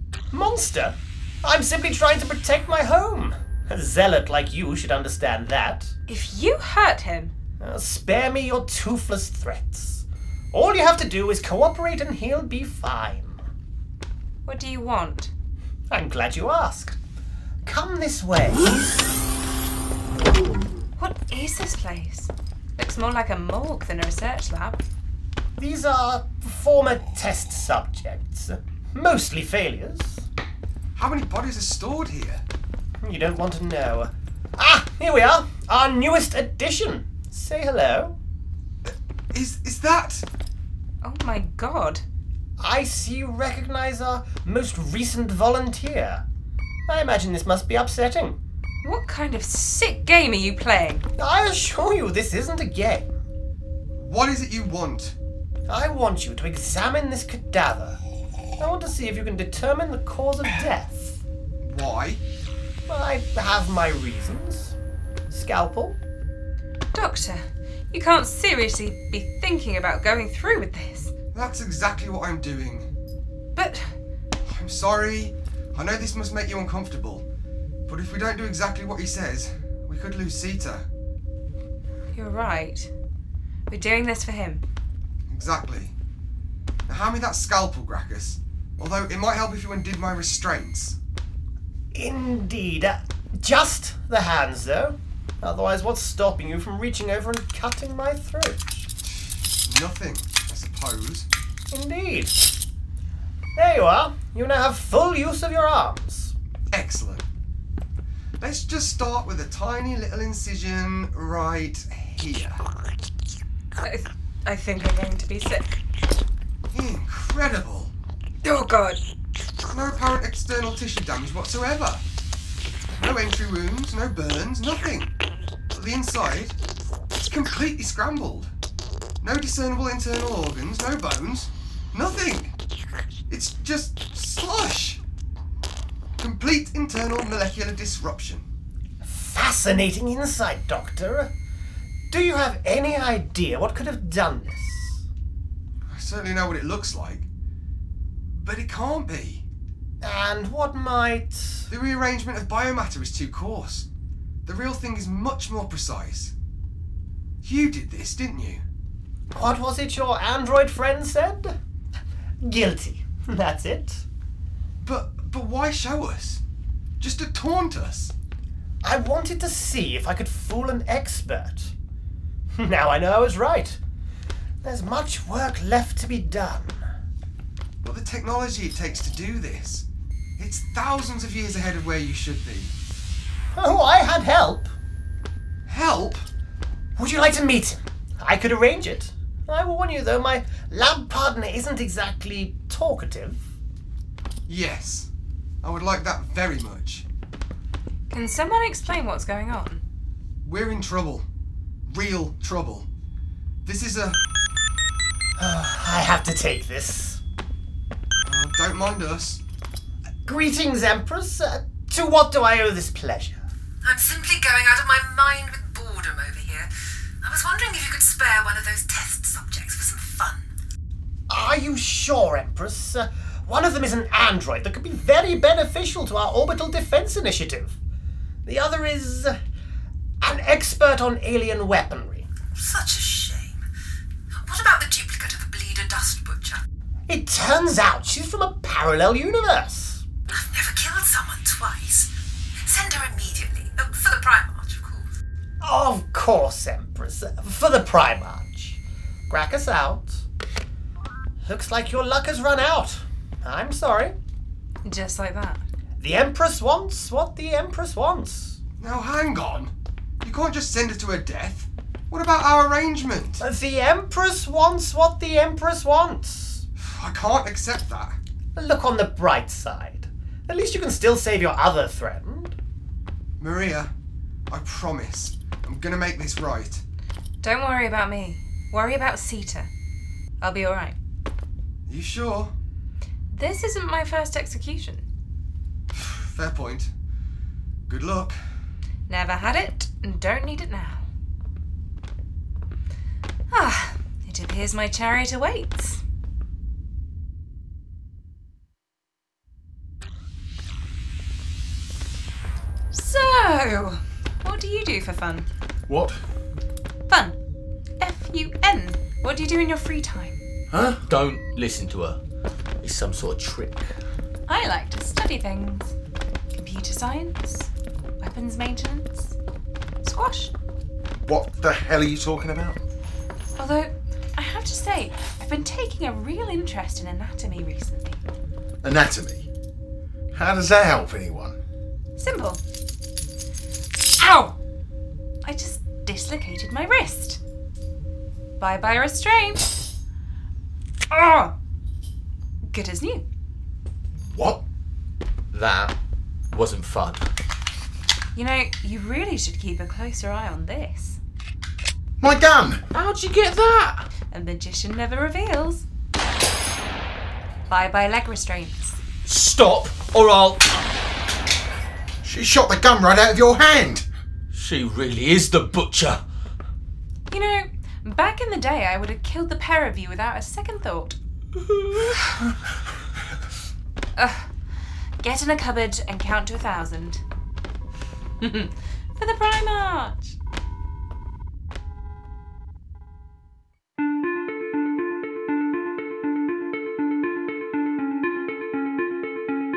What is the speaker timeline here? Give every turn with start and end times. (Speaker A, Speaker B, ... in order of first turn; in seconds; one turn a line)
Speaker A: 0.3-5.9
Speaker B: 6.1-7.3
Speaker A: 7.6-13.4
Speaker B: 14.4-15.3
Speaker A: 15.9-17.0
Speaker A: 17.6-19.0
Speaker B: 21.0-24.8
Speaker A: 25.6-30.2
Speaker C: 30.9-32.4
Speaker A: 33.0-38.1
Speaker C: 38.8-40.2
Speaker B: 41.0-42.0
Speaker A: 42.6-46.2
Speaker A: 46.9-48.4
Speaker B: 48.8-51.0
Speaker A: 51.2-53.1
Speaker C: 53.9-55.1
Speaker A: 55.7-58.0
Speaker A: 58.6-61.2
Speaker C: 61.6-62.2
Speaker A: 62.9-64.7
Speaker A: 65.3-66.0
Speaker B: 66.9-71.1
Speaker C: 71.3-72.9
Speaker B: 73.5-73.9
Speaker C: 74.5-77.2
Speaker C: 77.9-80.9
Speaker B: 82.1-82.9
Speaker B: 83.7-84.6
Speaker C: 85.3-85.9
Speaker C: 86.9-91.0
Speaker A: 91.9-98.9
Speaker C: 99.0-101.3
Speaker A: 101.7-102.5
Speaker A: 103.5-106.3
Speaker C: 106.7-107.2
Speaker C: 108.4-112.6
Speaker B: 113.8-115.7
Speaker C: 116.7-117.9
Speaker B: 118.4-119.0
Speaker C: 119.7-122.0
Speaker C: 122.9-125.1
Speaker C: 125.7-126.5
Speaker C: 127.2-128.5
Speaker C: 129.2-132.5
Speaker C: 133.3-135.0
Speaker C: 136.2-138.4
Speaker A: 139.0-141.3
Speaker A: 142.1-145.0
Speaker C: 145.9-147.3
Speaker C: 148.3-149.4
Speaker A: 150.0-151.7
Speaker C: 151.7-153.8
Speaker C: 154.4-156.3
Speaker C: 157.4-158.6
Speaker A: 159.3-161.6
Speaker A: 162.4-164.0
Speaker C: 164.8-166.4
Speaker C: 167.0-168.1
Speaker A: 168.8-171.7
Speaker A: 172.6-173.8
Speaker A: 174.6-176.8
Speaker C: 177.8-179.8
Speaker C: 180.4-182.7
Speaker A: 183.5-184.7
Speaker C: 185.7-186.2
Speaker A: 187.0-193.4
Speaker C: 194.5-195.1
Speaker C: 195.6-197.0
Speaker B: 198.1-199.8
Speaker C: 200.4-201.2
Speaker C: 201.9-202.9
Speaker C: 203.6-204.2
Speaker A: 205.4-207.2
Speaker C: 208.2-209.4
Speaker A: 210.2-213.4
Speaker D: 213.8-216.7
Speaker D: 217.2-220.4
Speaker A: 221.3-227.7
Speaker A: 228.4-229.4
Speaker A: 230.2-232.3
Speaker D: 232.5-233.6
Speaker D: 234.3-236.6
Speaker A: 237.1-240.0
Speaker D: 240.3-245.1
Speaker A: 245.6-250.2
Speaker A: 251.4-254.1
Speaker B: 254.8-255.6
Speaker A: 256.0-258.6
Speaker C: 258.8-263.4
Speaker A: 263.4-266.6
Speaker C: 266.8-268.1
Speaker A: 268.5-272.6
Speaker C: 273.4-273.9
Speaker C: 274.5-276.8
Speaker B: 277.4-279.7
Speaker B: 280.4-281.0
Speaker C: 281.9-282.5
Speaker B: 283.3-285.0
Speaker C: 285.9-286.9
Speaker C: 287.9-288.4
Speaker B: 289.1-291.0
Speaker B: 293.5-296.0
Speaker B: 302.9-305.5
Speaker E: 305.9-306.2
Speaker B: 307.1-307.4
Speaker B: 308.0-310.4
Speaker E: 310.7-311.0
Speaker F: 311.1-312.2
Speaker F: 312.8-313.9
Speaker B: 314.5-315.9
Speaker B: 316.5-319.3
Speaker B: 320.0-320.5
Speaker E: 321.1-322.8
Speaker B: 323.6-328.2
Speaker E: 328.8-329.5
Speaker E: 330.3-331.6
Speaker B: 332.2-332.6
Speaker B: 334.1-334.6
Speaker B: 335.4-337.4
Speaker B: 338.6-339.7
Speaker B: 341.1-341.5
Speaker B: 342.7-343.2
Speaker E: 344.3-344.6
Speaker F: 345.5-345.9
Speaker F: 346.5-347.3
Speaker B: 348.3-351.2
Speaker E: 352.2-352.8
Speaker F: 352.9-354.1
Speaker B: 354.3-355.8
Speaker B: 357.7-359.0
Speaker F: 359.2-360.9
Speaker E: 362.2-364.1
Speaker F: 364.5-366.2
Speaker B: 367.3-371.2
Speaker B: 374.1-374.5
Speaker B: 375.2-377.2
Speaker B: 378.4-380.4